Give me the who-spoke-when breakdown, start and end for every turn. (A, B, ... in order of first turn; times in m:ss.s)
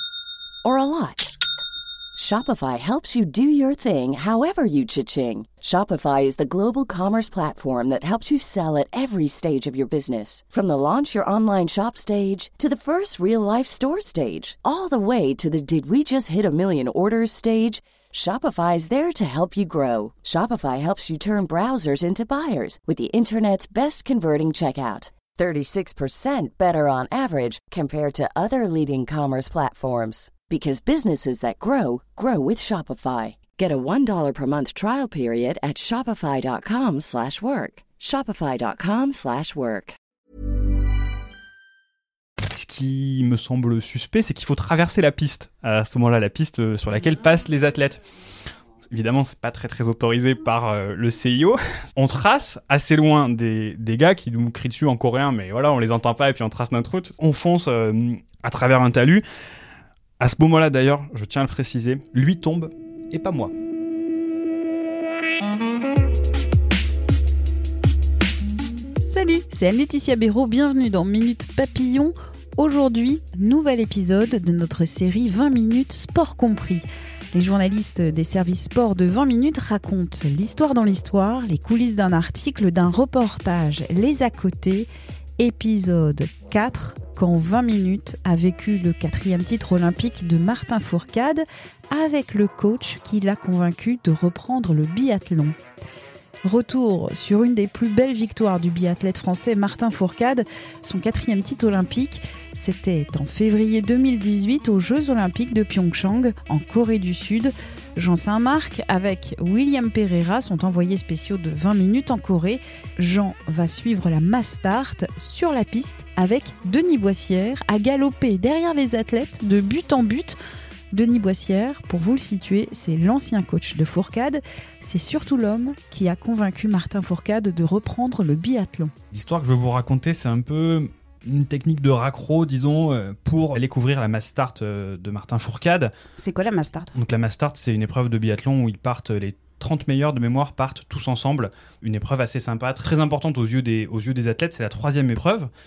0:00.6-0:01.3 A
0:02.2-0:40.0 A
0:42.5-0:48.0 B
0:48.9-0:59.2 B
1:00.2-1:03.5 B
1:09.0-1:24.9 C
1:25.4-1:35.6 C
1:36.4-2:00.4 C
2:00.9-2:08.9 C
2:09.1-2:15.9 B
2:16.2-2:16.9 C
2:17.0-2:25.5 B